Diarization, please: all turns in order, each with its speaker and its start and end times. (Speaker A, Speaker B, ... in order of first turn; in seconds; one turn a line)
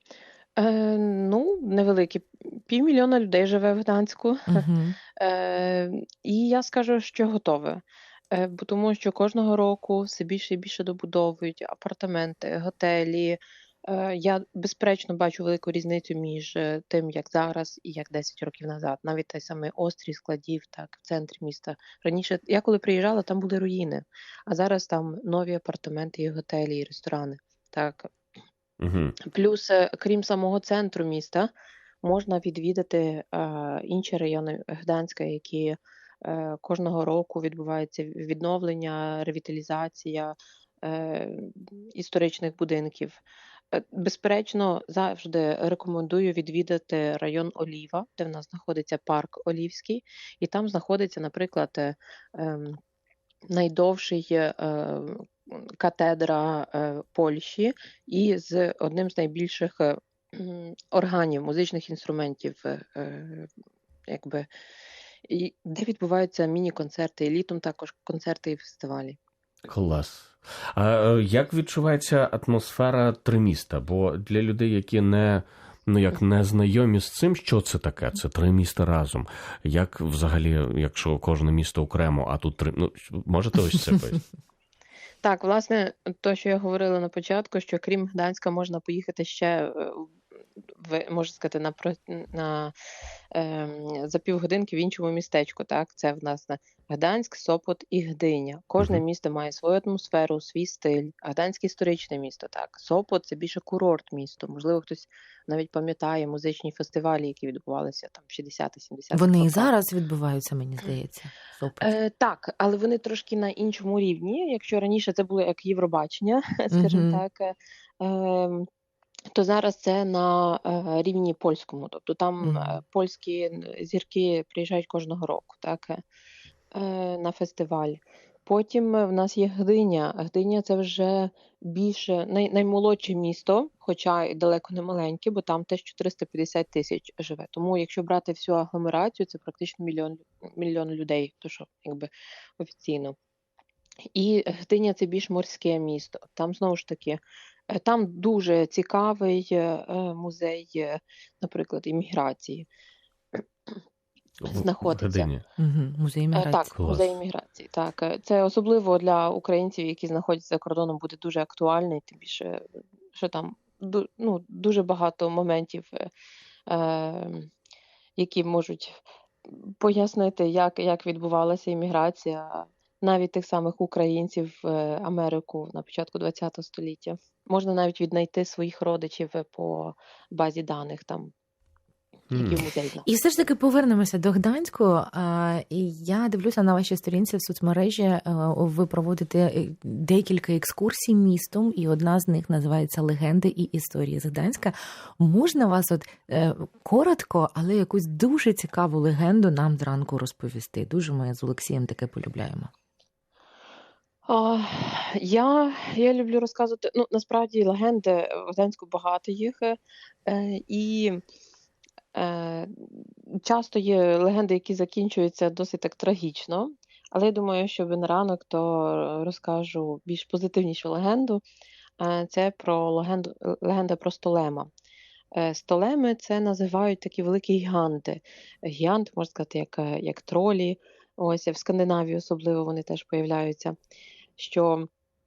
Speaker A: 0.6-4.6
Speaker B: 4.5-5.0
Speaker A: 5.2-28.1
Speaker C: 28.8-29.1
Speaker A: 29.2-31.5
Speaker A: 32.0-52.8
Speaker A: 53.5-63.5
Speaker A: 64.1-64.5
Speaker A: 65.3-69.2
Speaker C: 69.7-84.2
Speaker A: 85.2-90.1
Speaker A: 90.8-92.7
Speaker A: 93.3-109.7
Speaker B: 109.1-111.9
Speaker A: 111.8-118.7
Speaker B: 116.7-117.2
Speaker A: 119.3-126.0
Speaker B: 122.4-122.8
Speaker A: 126.7-143.2
Speaker A: 144.1-152.7
Speaker A: 153.3-153.8
Speaker C: 154.4-155.4
Speaker A: 154.5-155.3
Speaker B: 155.6-156.7
Speaker A: 156.3-162.6
Speaker C: 156.7-157.2
Speaker A: 163.2-166.1
Speaker A: 166.7-167.5
Speaker A: 168.2-181.3
Speaker C: 182.3-182.6
Speaker A: 182.3-183.1
Speaker B: 183.0-202.7
Speaker A: 204.2-211.2
Speaker A: 212.1-221.4
Speaker A: 222.0-224.7
Speaker A: 225.3-233.8
Speaker A: 234.4-234.9